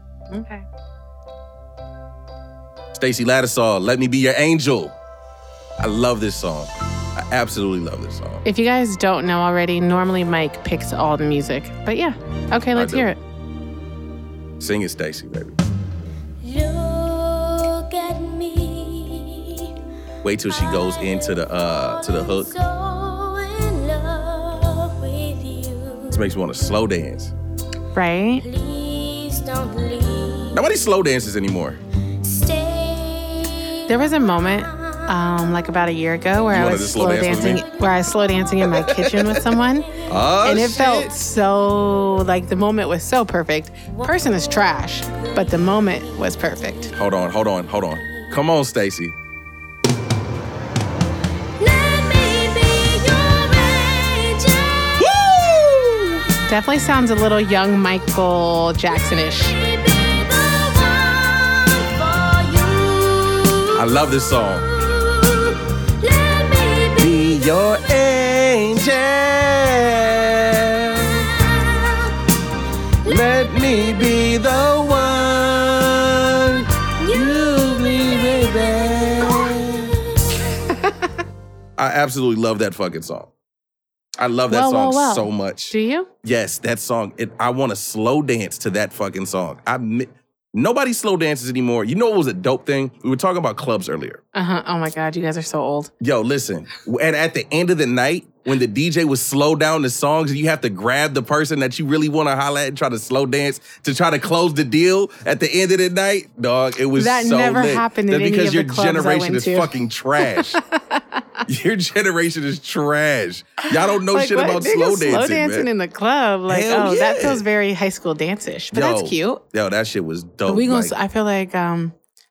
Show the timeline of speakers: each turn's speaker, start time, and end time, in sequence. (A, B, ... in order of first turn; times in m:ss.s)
0:00.3-0:00.6 A
0:02.9-0:05.0 B
0:05.8-0:08.4 B
0:08.4-0:13.2 A
0:12.7-0:13.1 B
0:14.6-0:15.6 B
0:16.4-0:19.8 C
0:20.2-0:22.5 B
0:20.5-0:26.3 C
0:26.1-0:27.3 B
0:27.9-0:28.4 A
0:28.4-0:30.6 C
0:30.5-0:31.8 B
0:32.2-0:35.2 C
0:33.9-0:46.9 A
0:36.5-0:37.6 B
0:38.3-0:38.7 C
0:38.6-0:39.4 B
0:39.4-0:40.1 C
0:40.1-0:41.1 B
0:45.1-0:46.0 C
0:46.9-0:49.2 B
0:51.6-0:55.2 C
0:55.0-0:56.2 B
0:56.4-0:59.5 A
0:59.3-1:07.9 C
1:03.7-1:04.6 B
1:07.0-1:11.3 B
1:11.0-1:12.3 C
1:13.0-1:15.0 C
1:13.0-1:19.9 B
1:17.0-1:20.2 C
1:20.7-1:20.9 A
1:21.8-1:23.3 B
1:24.2-1:34.2 B
1:24.5-1:26.1 A
1:34.3-1:35.9 A
1:36.0-1:50.6 B
1:46.9-1:51.4 A
1:51.4-1:55.7 B
1:53.7-1:59.4 A
1:56.5-1:57.4 B
1:58.7-2:00.9 B
2:00.5-2:01.9 A